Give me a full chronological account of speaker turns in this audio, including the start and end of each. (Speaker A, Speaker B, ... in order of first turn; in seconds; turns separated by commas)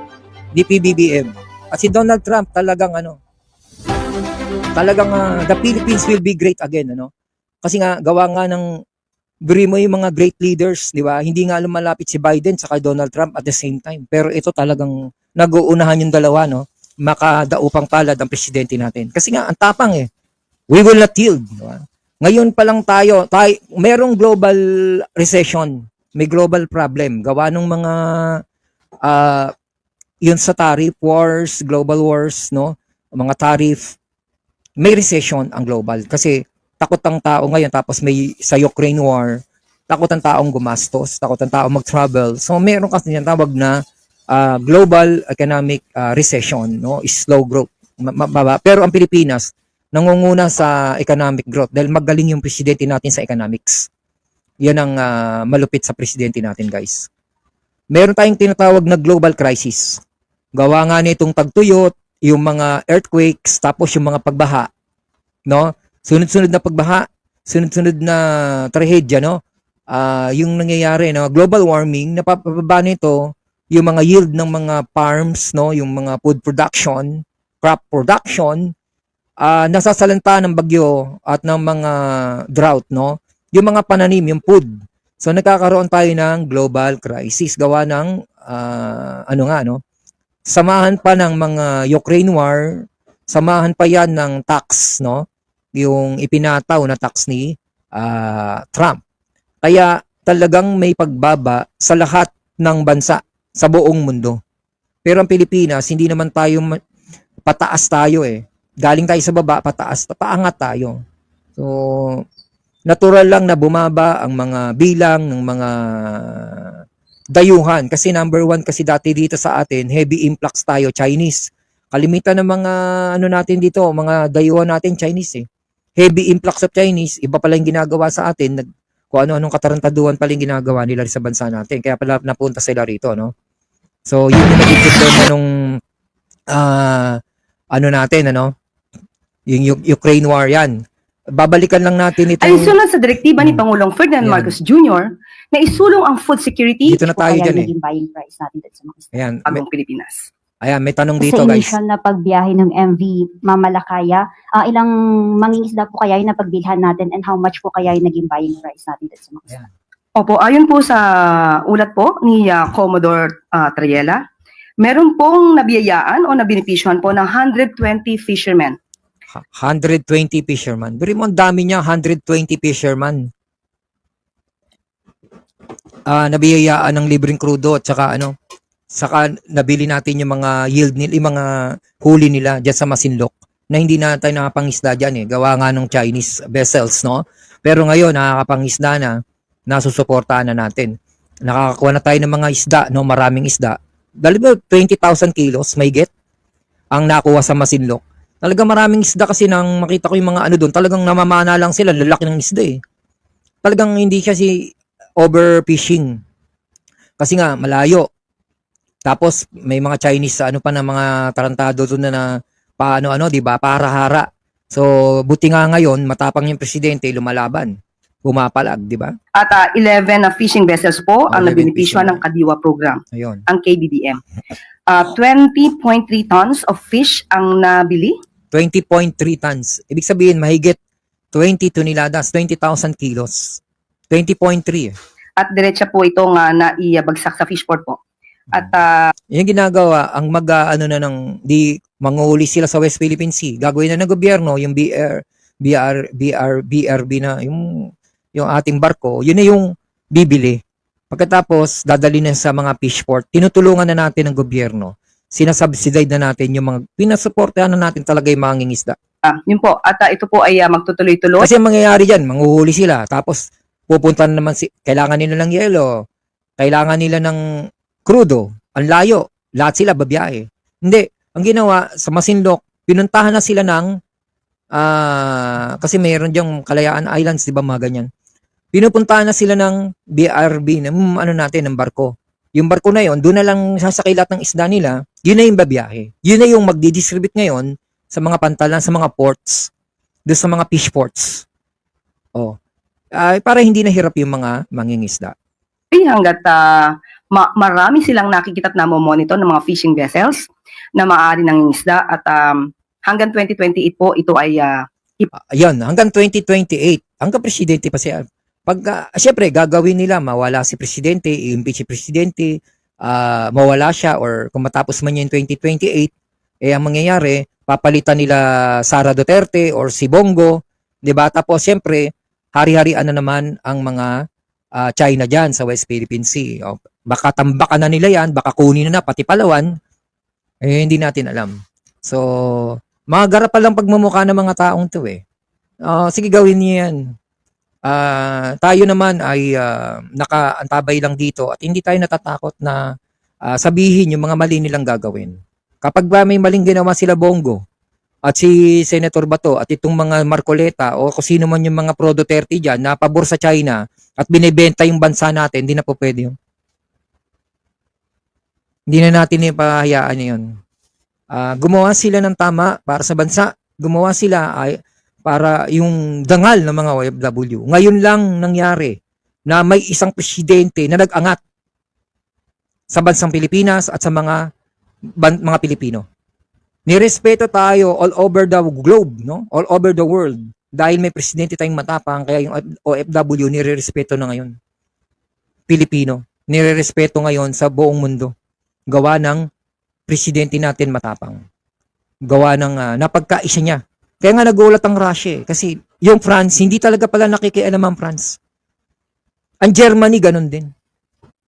Speaker A: 0.5-3.2, Speaker A: 4.8-7.1, Speaker A: 7.6-8.7, Speaker A: 9.4-20.1, Speaker A: 20.7-24.6, Speaker A: 25.1-28.4, Speaker A: 29.1-29.5, Speaker A: 30.2-34.0, Speaker A: 34.8-39.4, Speaker A: 39.9-43.8, Speaker A: 44.3-53.9, Speaker A: 54.6-57.1, Speaker A: 57.9-60.0, Speaker A: 60.6-64.7, Speaker A: 65.5-69.4, Speaker A: 69.9-73.2, Speaker A: 73.7-78.7, Speaker A: 79.4-84.7, Speaker A: 85.2-89.8, Speaker A: 90.5-95.2, Speaker A: 95.8-99.0, Speaker A: 99.6-104.4, Speaker A: 105.0-106.8, Speaker A: 107.5-111.0, Speaker A: 111.6-112.2, Speaker A: 112.9-116.8, Speaker A: 117.3-125.5, Speaker A: 126.0-133.3, Speaker A: 134.1-135.5, Speaker A: 136.5-137.2, Speaker A: 137.7-138.5, Speaker A: 139.5-140.8, Speaker A: 141.3-142.7, Speaker B: 142.4-147.0, Speaker A: 144.2-144.5, Speaker A: 146.8-147.7, Speaker C: 147.0-149.1, Speaker A: 149.1-149.6, Speaker B: 149.5-150.3, Speaker A: 150.6-151.7, Speaker C: 151.2-159.6, Speaker B: 160.2-164.2, Speaker B: 164.8-168.8, Speaker A: 169.3-173.3, Speaker A: 176.1-178.3, Speaker A: 178.9-181.5, Speaker A: 182.0-189.2, Speaker A: 189.7-190.9, Speaker A: 191.4-196.1, Speaker A: 196.9-202.8, Speaker A: 203.6-204.5, Speaker A: 205.2-206.1, Speaker A: 207.2-208.1, Speaker A: 209.1-212.3, Speaker A: 212.8-217.7, Speaker A: 218.2-219.1, Speaker B: 219.4-224.2, Speaker A: 221.3-222.2, Speaker A: 223.1-223.4, Speaker B: 224.9-228.2, Speaker A: 228.5-230.8, Speaker A: 231.3-233.6, Speaker A: 234.1-234.9, Speaker B: 235.4-238.0, Speaker B: 238.5-238.9, Speaker A: 239.3-247.6, Speaker A: 248.3-250.6, Speaker A: 251.1-258.9, Speaker B: 259.3-261.5, Speaker A: 261.4-265.9, Speaker A: 266.6-267.4, Speaker A: 268.1-273.9, Speaker A: 274.7-278.1, Speaker A: 278.7-289.7, Speaker A: 290.3-291.4, Speaker A: 293.1-295.3, Speaker B: 295.9-300.4, Speaker B: 301.0-305.3, Speaker A: 305.5-316.1, Speaker A: 316.6-324.1, Speaker A: 324.8-329.7, Speaker A: 330.6-331.5, Speaker A: 332.0-335.2, Speaker A: 335.9-337.0, Speaker A: 337.9-342.8, Speaker A: 343.5-347.6, Speaker A: 348.3-356.4, Speaker A: 358.9-360.5, Speaker A: 361.3-369.0, Speaker A: 369.5-371.4, Speaker A: 372.9-374.4, Speaker A: 375.2-376.0, Speaker A: 376.9-384.5, Speaker A: 385.7-388.3, Speaker A: 388.9-389.4, Speaker A: 390.1-391.4, Speaker A: 392.3-398.4, Speaker A: 399.6-400.7